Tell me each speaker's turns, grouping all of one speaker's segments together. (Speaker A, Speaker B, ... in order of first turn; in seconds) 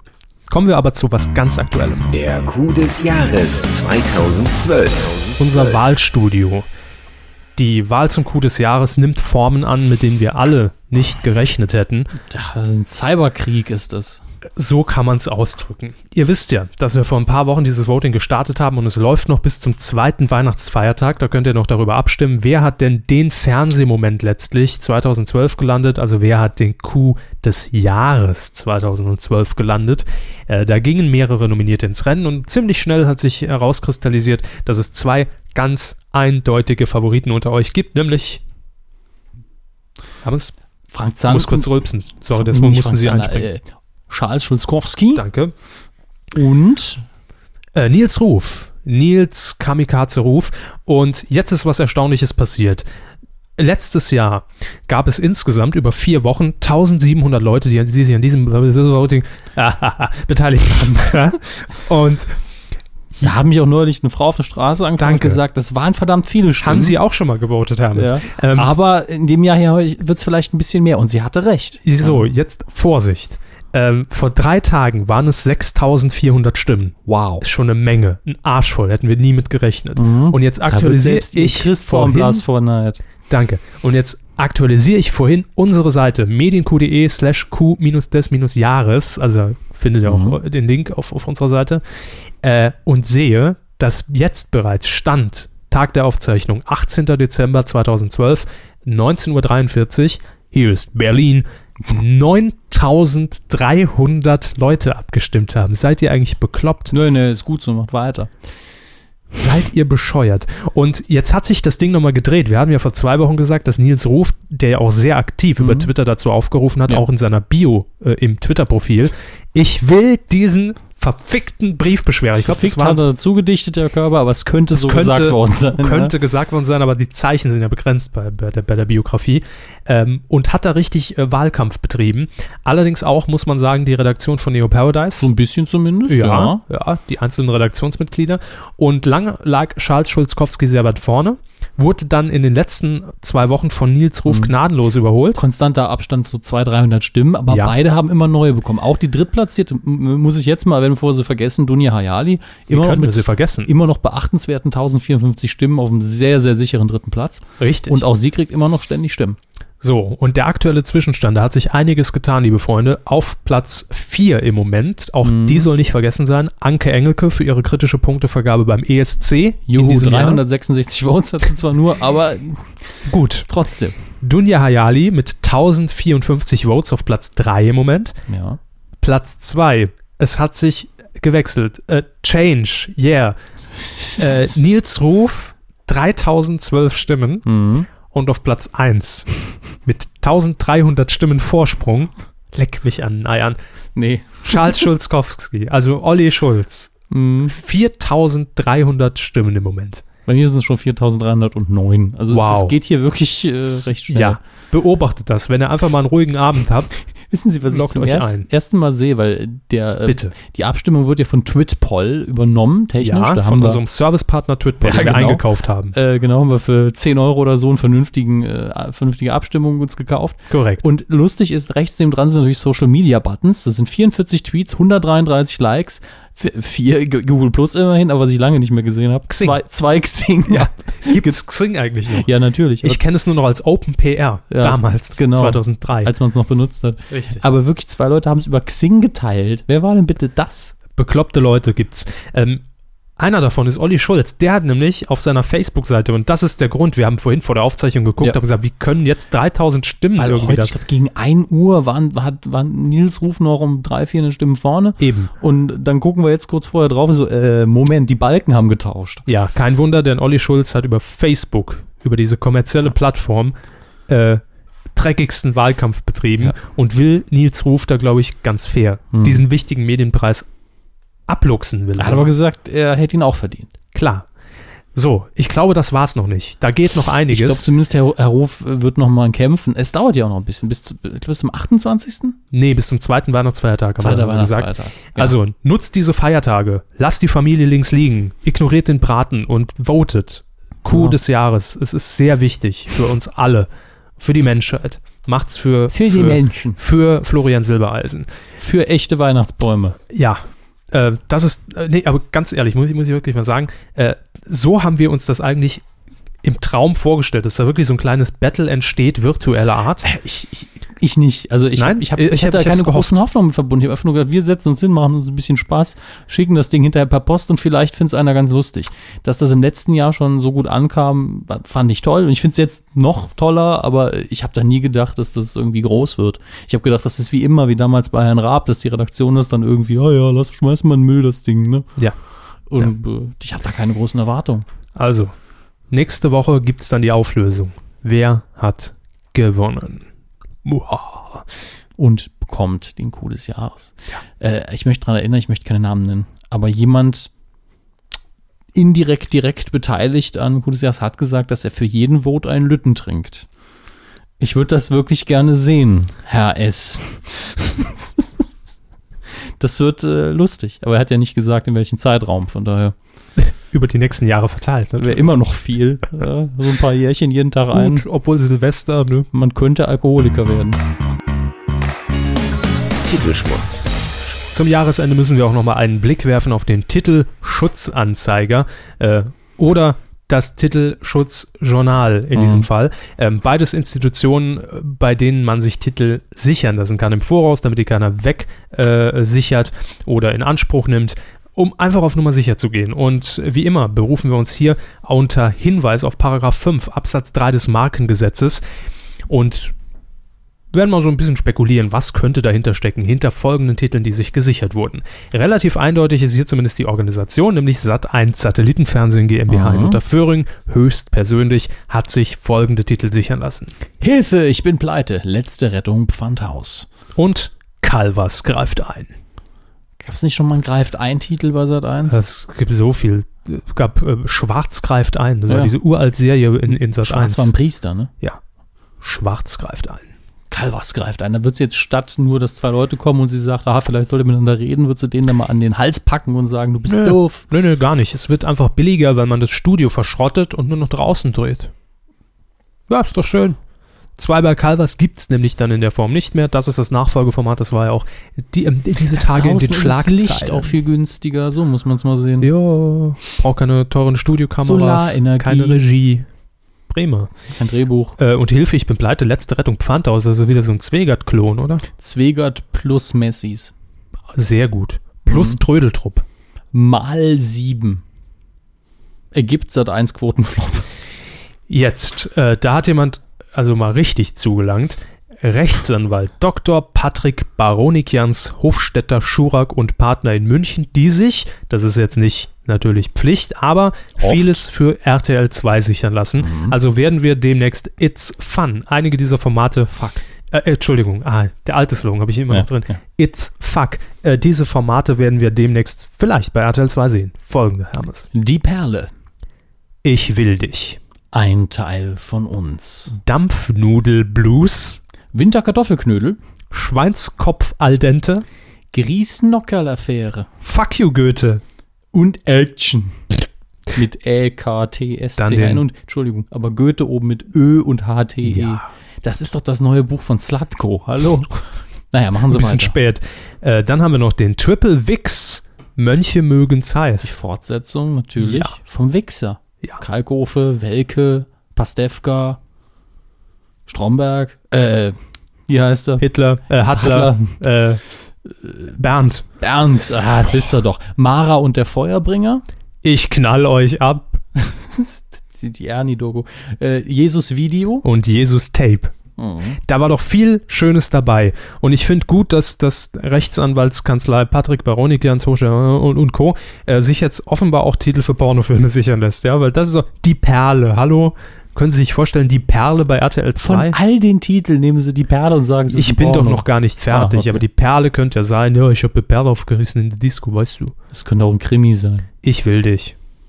Speaker A: 0.5-2.1, 5.4-6.7, 7.6-12.1, 14.6-38.4, 40.2-40.5, 41.3-43.5, 45.1-45.5, 47.8-52.9, 53.6-62.4, 65.0-65.4, 66.6-68.7, 71.8-82.4, 83.3-91.8, 92.4-107.0, 109.3-123.0, 124.7-135.3, 136.1-145.4, 147.5-147.8, 152.7-153.7, 157.6-158.0, 159.8-170.4, 173.1-173.5, 174.2-178.2, 179.0-183.4, 184.2-187.5, 188.1-189.3, 189.8-193.6, 194.4-196.9, 197.5-200.0, 202.3-202.8, 204.1-206.9, 207.7-208.5, 210.1-210.3, 213.0-215.9, 220.5-220.9, 229.3-229.6, 230.5-232.3, 232.8-236.1, 237.1-237.4, 241.0-242.6, 243.2-250.7, 255.0-255.3, 259.3-263.6, 264.1-264.4, 264.9-270.5, 271.3-272.3, 273.9-274.3, 274.9-277.6, 282.5-298.3, 300.1-305.8, 306.4-310.1, 311.8-313.2, 335.0-335.3, 335.9-340.1, 340.6-341.4, 363.4-365.4, 367.7-369.3, 374.5-398.6, 399.3-399.7, 400.7-413.7, 417.2-419.1, 422.1-427.5, 429.0-430.1, 436.9-441.7, 442.9-443.6, 444.2-450.7, 452.4-456.3, 456.9-457.3, 458.2-461.9, 464.3-466.2, 471.7-498.3, 500.0-501.0, 503.1-505.0, 506.7-508.4, 510.6-511.6, 515.4-515.8, 518.5-518.8, 522.5-527.4, 528.4-528.7, 536.2-538.0, 539.0-539.5, 543.0-544.4, 548.0-549.1, 549.8-564.0, 565.9-570.9, 572.4-573.1
Speaker B: 2.1-5.8, 373.0-373.9
Speaker C: 12.3-14.2, 40.9-41.7, 42.3-45.2, 46.3-47.0, 63.2-67.0, 68.0-72.3, 77.1-77.4, 80.0-83.0, 90.1-90.4, 106.9-108.3, 115.6-115.9, 122.3-126.1, 135.2-136.6, 145.4-159.4, 165.2-165.7, 169.7-172.8, 173.5-174.0, 178.3-178.6, 187.5-187.9, 194.0-194.8, 197.1-197.6, 200.3-204.4, 207.3-213.8, 214.8-231.3, 232.2-233.0, 234.5-240.8, 250.2-259.2, 269.1-269.4, 272.0-273.7, 277.3-282.4, 284.0-285.4, 295.9-296.8, 298.6-300.0, 310.0-331.9, 332.7-334.6, 342.0-347.3, 348.8-353.5, 354.4-358.5, 359.6-362.9, 365.0-368.0, 369.3-370.8, 382.3-382.7, 409.5-410.0, 414.0-416.9, 420.0-422.2, 425.5-425.8, 427.0-428.1, 430.5-437.4, 449.1-452.5, 454.6-455.8, 457.6-458.2, 461.9-463.7, 465.3-465.6, 466.7-468.0, 469.3-470.9, 484.2-484.6, 486.4-486.8, 489.9-490.2, 492.5-492.9, 498.3-499.1, 501.3-503.1, 505.3-506.4, 508.9-510.5, 512.1-513.3, 513.9-523.0, 527.2-532.6, 533.9-535.2, 535.7-536.3, 536.9-537.6, 538.6-539.0, 539.6-542.6, 544.6-548.0, 549.4-549.8, 563.6-567.6, 571.1-572.3